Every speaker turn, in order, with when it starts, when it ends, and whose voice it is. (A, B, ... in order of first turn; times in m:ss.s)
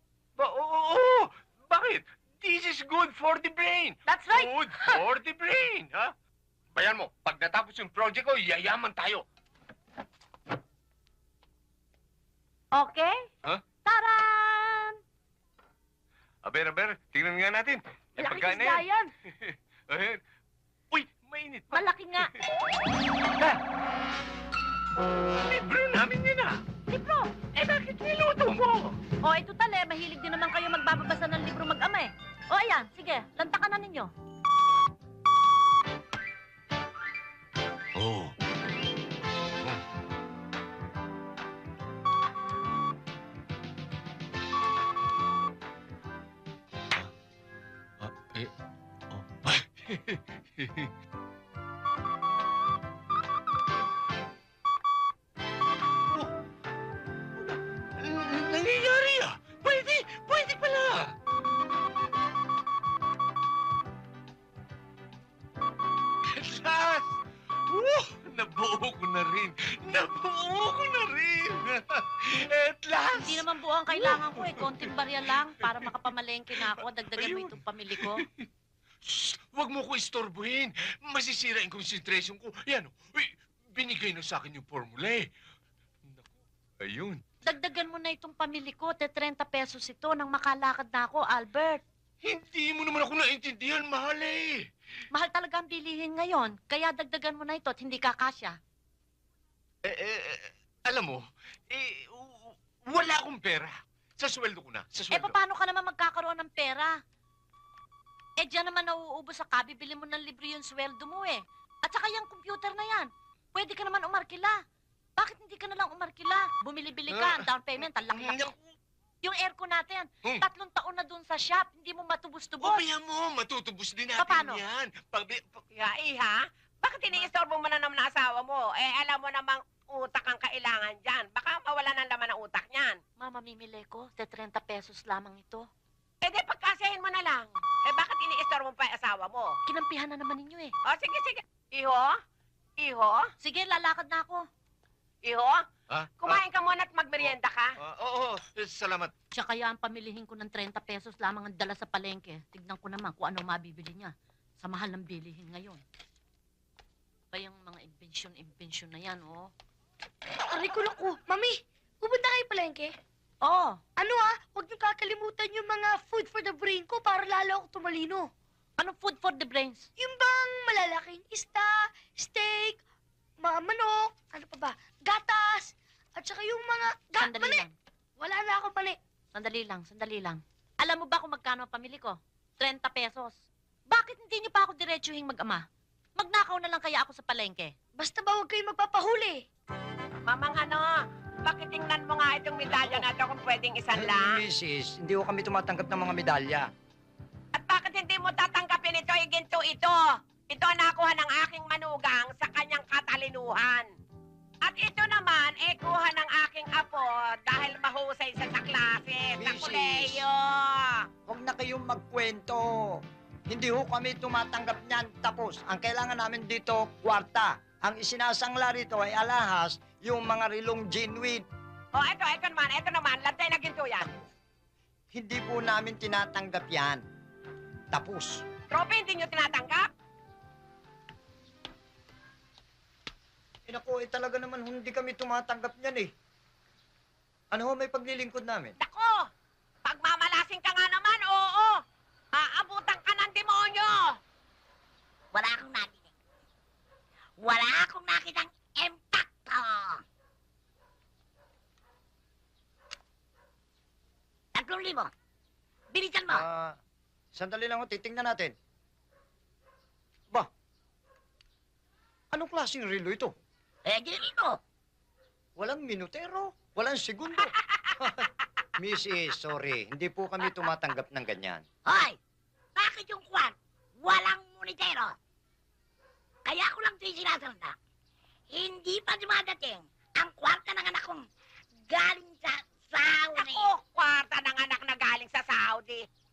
0:00.4-0:06.1 A
0:06.7-0:09.2 A
0:12.7-0:13.1 B
0:13.8-0:15.0 B
0:16.4-0:20.2 A
0:18.2-0:19.1 C
0:20.9-0:22.4 A
0:21.7-0:22.3 B
0:25.4-0:26.6 A
0:26.9-0:27.3 B
0:27.6-0:29.0 A
0:29.2-0:34.1 B
0:38.0-0:38.3 A
0:48.0-0:48.5 A
0:49.1-0:50.9 A
0:57.4-1:01.1 A
1:06.3-1:07.1 A
1:07.7-1:14.9 A
1:13.1-1:18.2 B
1:15.6-1:15.9 A
1:16.7-1:18.2 A
1:19.0-1:25.3 A
1:26.8-1:27.2 A
1:27.4-1:31.8 B
1:32.2-1:34.6 A
1:35.1-1:38.6 B
1:39.8-1:45.4 A
1:45.1-1:47.0 B
1:48.4-1:54.6 B
1:55.2-1:58.5 B
1:57.1-1:57.4 A
1:58.1-1:58.6 A
1:59.2-2:02.8 B
2:02.6-2:05.6 A
2:04.2-2:04.6 B
2:05.7-2:13.0 D
2:13.2-2:15.7 B
2:16.2-2:19.6 D
2:19.6-2:20.7 B
2:20.8-2:22.1 D
2:22.8-2:23.2 D
2:23.4-2:24.5 B
2:25.2-2:25.6 D
2:25.9-2:26.4 A
2:26.2-2:27.7 D
2:27.8-2:29.1 A
2:29.3-2:35.8 B
2:37.3-2:39.5 B
2:40.5-2:42.9 C
2:43.4-2:43.8 B
2:44.0-2:48.3 C
2:48.8-2:49.9 B
2:50.0-2:52.8 C
2:53.4-2:57.6 C
2:57.2-2:57.7 B
2:58.2-2:59.0 C
2:59.3-3:05.6 B
3:06.2-3:07.7 B
3:08.0-3:09.4 C
3:10.2-3:10.9 D
3:11.4-3:14.4 D
3:13.9-3:16.7 E
3:17.5-3:23.9 D
3:24.6-3:31.0 D
3:29.4-3:30.2 E
3:31.3-3:41.4 E
3:41.9-3:44.1 D
3:45.1-3:47.0 E
3:47.9-3:48.4 E
3:48.7-3:49.9 D
3:53.7-3:56.1 E
3:57.5-3:58.8 E
3:58.8-3:59.2 D
3:59.8-4:01.7 D
4:02.3-4:04.1 D
4:05.3-4:06.0 F
4:07.4-4:10.0 F
4:14.5-4:15.1 F
4:15.9-4:16.4 F
4:16.3-4:16.8 E
4:17.3-4:18.5 E
4:22.3-4:23.3 E
4:23.8-4:24.6 F
4:25.6-4:28.2 E
4:28.8-4:31.6 E
4:31.8-4:32.2 F
4:32.8-4:35.1 F
4:36.4-4:37.7 F
4:38.5-4:41.2 F
4:41.9-4:43.6 F
4:43.3-4:46.0 D